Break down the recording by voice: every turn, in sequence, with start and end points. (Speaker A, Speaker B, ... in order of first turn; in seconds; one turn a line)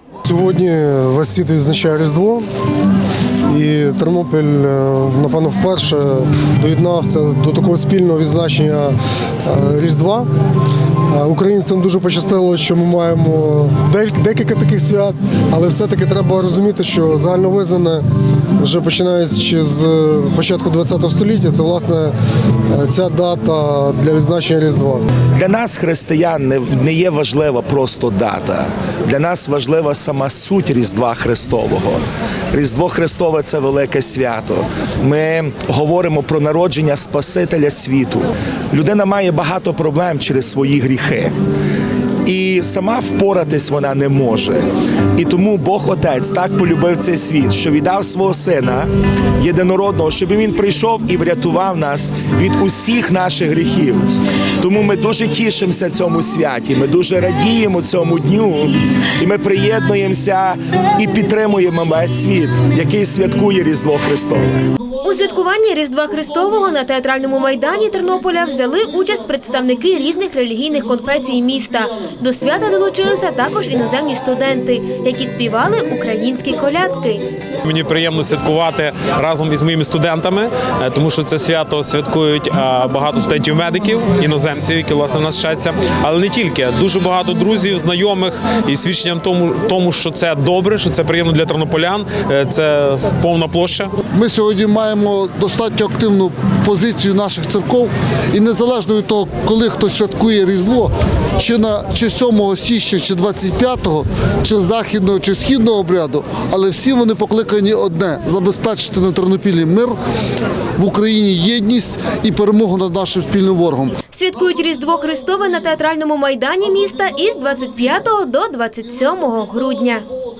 Speaker A: 0.2-2.5
Speaker A: 3.5-10.3
Speaker A: 11.1-18.0
Speaker A: 18.6-22.1
Speaker A: 22.7-25.0
Speaker B: 25.3-41.3
Speaker B: 42.2-54.1
Speaker B: 54.6-64.7
Speaker C: 65.0-77.2
Speaker D: 77.6-93.9
Speaker E: 94.1-110.0
Speaker E: 110.8-113.9
Speaker C: 114.1-120.0